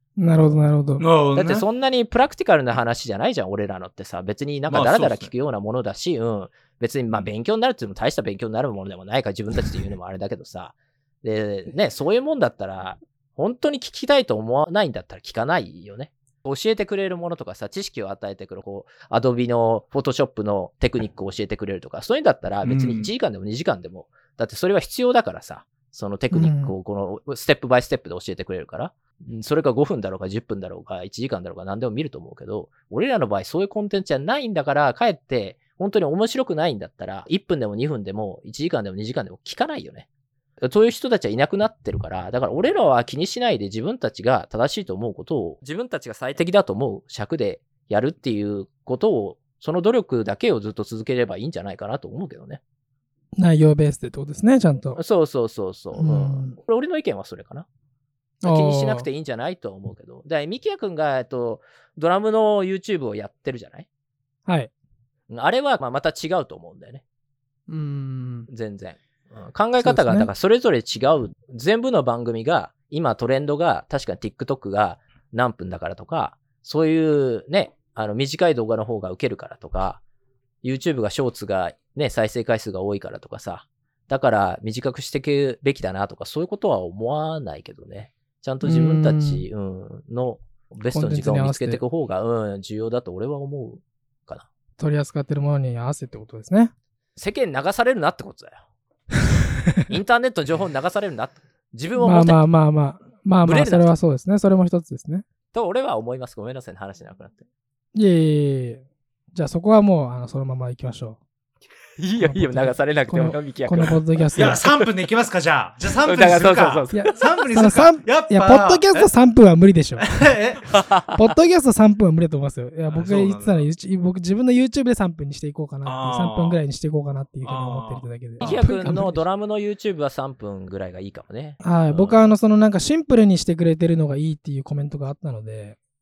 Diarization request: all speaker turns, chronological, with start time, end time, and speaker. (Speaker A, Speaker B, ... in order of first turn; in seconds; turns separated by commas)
Speaker A: 0.2-1.1, Speaker B: 1.0-1.6, Speaker C: 1.4-40.1, Speaker B: 4.7-5.3, Speaker B: 22.6-23.1, Speaker A: 26.3-26.7, Speaker C: 40.6-52.6, Speaker A: 53.4-55.0, Speaker C: 55.0-57.7, Speaker A: 56.0-56.6, Speaker A: 58.4-59.1, Speaker C: 58.5-63.9, Speaker C: 65.3-67.0, Speaker A: 67.7-68.5, Speaker C: 68.5-80.0, Speaker A: 69.8-70.3, Speaker C: 80.6-94.5, Speaker A: 88.6-89.4, Speaker A: 90.9-91.8, Speaker A: 94.8-96.7, Speaker C: 97.2-98.6, Speaker C: 99.9-102.4, Speaker A: 102.0-105.2, Speaker C: 103.4-103.9, Speaker C: 105.5-107.5, Speaker A: 108.0-111.2, Speaker C: 112.0-114.9, Speaker A: 112.2-114.6, Speaker B: 114.4-119.1, Speaker C: 116.0-117.4, Speaker A: 116.9-120.1, Speaker B: 120.0-120.8, Speaker C: 120.7-121.2, Speaker A: 121.1-129.2, Speaker B: 122.9-123.7, Speaker B: 125.8-126.6, Speaker B: 127.4-128.7, Speaker C: 128.4-132.3, Speaker A: 131.6-135.8